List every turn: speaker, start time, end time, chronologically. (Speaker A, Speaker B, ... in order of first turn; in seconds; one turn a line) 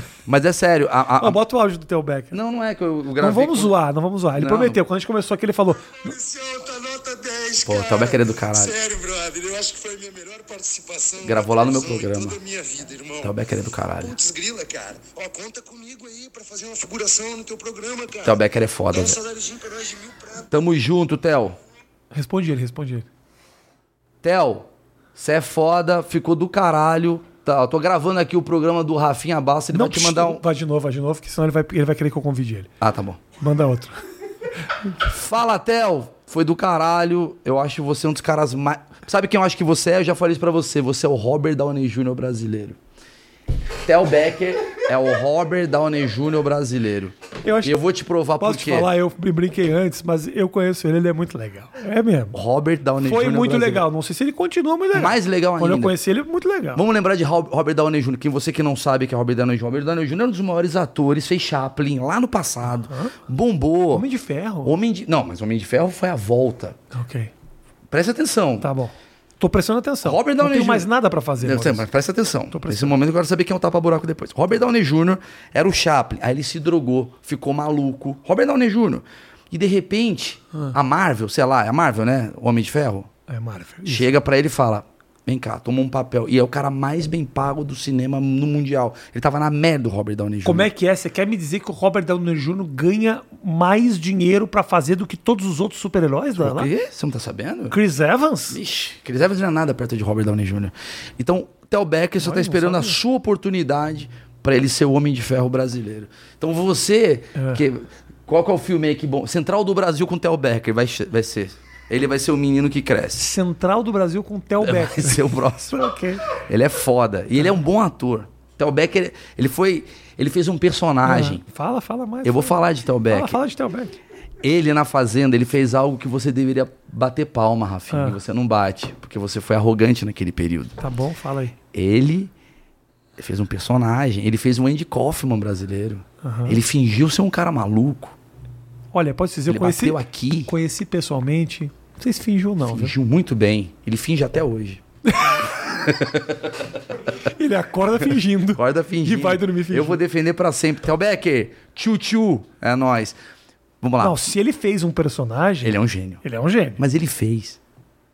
Speaker A: 0.2-1.4
Speaker B: 1.2-2.4
Speaker A: 2.3-3.7
Speaker B: 3.2-6.1
Speaker A: 4.3-4.8
Speaker C: 6.0-13.3
Speaker A: 7.6-8.8
Speaker A: 11.2-12.4
Speaker A: 13.2-14.2
Speaker C: 14.0-18.4
Speaker A: 18.2-19.2
Speaker C: 18.9-20.5
Speaker A: 20.5-21.6
Speaker B: 22.1-23.1
Speaker A: 24.2-30.4
Speaker B: 29.7-32.7
Speaker A: 32.8-33.2
Speaker B: 33.4-34.0
Speaker A: 35.0-42.8
Speaker A: 43.8-48.9
Speaker B: 47.4-47.8
Speaker B: 48.4-52.4
Speaker A: 52.3-53.8
Speaker B: 53.0-56.8
Speaker A: 54.9-55.9
Speaker A: 56.7-64.1
Speaker B: 62.7-63.1
Speaker B: 63.9-64.7
Speaker A: 64.6-66.8
Speaker B: 66.9-67.3
Speaker A: 67.9-68.7
Speaker B: 68.6-71.8
Speaker A: 70.0-70.9
Speaker A: 71.4-83.1
Speaker B: 72.5-72.9
Speaker B: 83.3-84.1
Speaker A: 83.8-90.7
Speaker B: 90.4-96.7
Speaker A: 96.3-97.8
Speaker B: 97.7-98.6
Speaker A: 98.5-113.3
Speaker B: 102.2-103.0
Speaker B: 107.3-107.6
Speaker B: 113.2-116.2
Speaker A: 114.6-115.8
Speaker A: 116.3-121.4
Speaker B: 121.0-122.5
Speaker A: 122.2-123.4
Speaker B: 123.1-123.9
Speaker A: 124.4-130.8
Speaker B: 127.9-128.2
Speaker B: 130.8-131.5
Speaker A: 131.7-132.3
Speaker A: 133.2-138.1
Speaker B: 136.2-136.6
Speaker B: 138.9-142.9
Speaker A: 139.5-140.5
Speaker A: 142.6-144.8
Speaker B: 145.0-145.5
Speaker A: 145.4-146.5
Speaker B: 147.2-150.0
Speaker A: 148.5-153.2
Speaker A: 153.8-154.2
Speaker B: 154.0-156.8
Speaker A: 155.6-156.2
Speaker A: 156.8-157.6